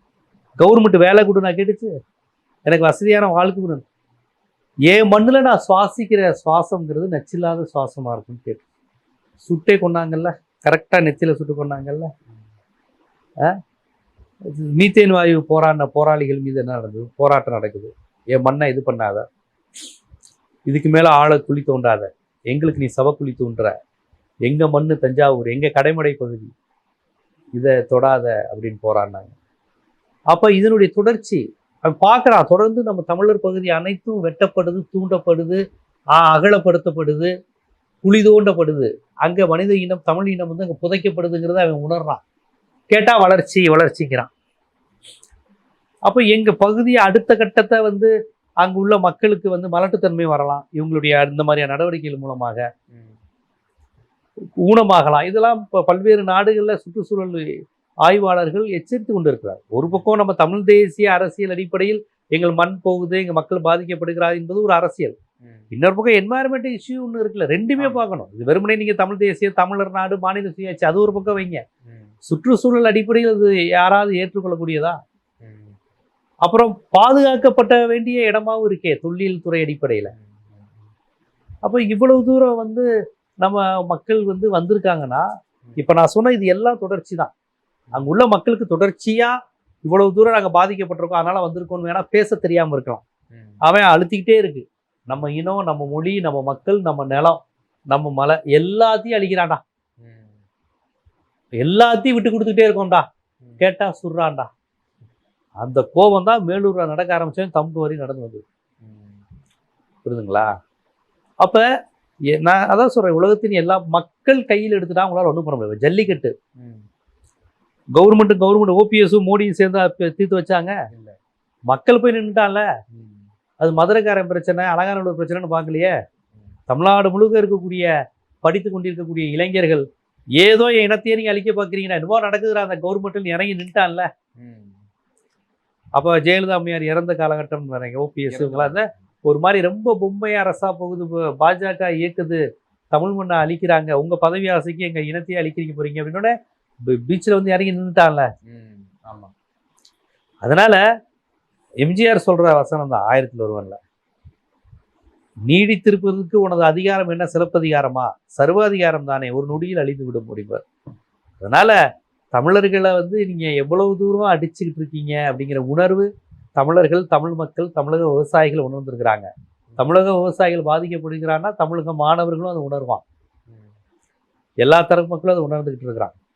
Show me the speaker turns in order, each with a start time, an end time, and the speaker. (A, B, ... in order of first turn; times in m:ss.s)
0:00.6-0:01.9 A
0:02.7-0:03.8 A
0:04.9-0:08.6 A
0:09.4-0:12.1 A
0:14.5-0:19.2 A
0:20.7-0:23.7 A
0:24.5-0:26.5 A
0:27.6-0:29.3 A
0:30.3-0:35.6 A
0:36.2-0:37.3 A
0:38.0-0:42.2 A
0:42.9-0:44.3 A
0:46.1-0:48.1 A
0:48.6-0:52.6 A
0:52.9-0:53.2 B
0:54.6-0:57.5 A
0:58.1-1:05.2 A
1:05.7-1:11.6 A
1:07.8-1:08.0 B
1:11.9-1:12.1 B
1:12.3-1:15.0 A
1:15.4-1:15.8 B
1:16.4-1:20.1 A
1:20.1-1:20.9 B
1:21.6-1:22.8 A
1:23.4-1:25.3 A
1:25.8-1:27.3 A
1:28.0-1:29.3 A
1:29.9-1:33.0 A
1:33.3-1:33.6 B
1:33.6-1:39.6 A
1:40.0-1:40.4 B
1:41.6-1:43.1 A
1:43.6-1:44.5 A
1:45.6-1:48.4 A
1:48.8-1:49.2 B
1:50.0-1:50.5 A
1:52.4-1:56.3 A
1:56.6-1:56.9 B
1:58.0-2:00.7 A
2:01.7-2:02.6 A
2:02.9-2:03.3 B
2:03.6-2:05.9 A
2:06.7-2:07.9 A
2:08.4-2:09.8 A
2:10.4-2:14.1 A
2:14.4-2:14.8 B
2:16.0-2:22.4 A
2:18.3-2:18.8 B
2:22.9-2:26.3 A
2:26.9-2:28.3 A
2:28.5-2:29.3 B
2:30.4-2:30.8 A
2:31.8-2:33.8 A
2:35.5-2:40.6 A
2:41.4-2:41.8 A
2:42.3-2:53.0 A
2:54.6-2:56.2 A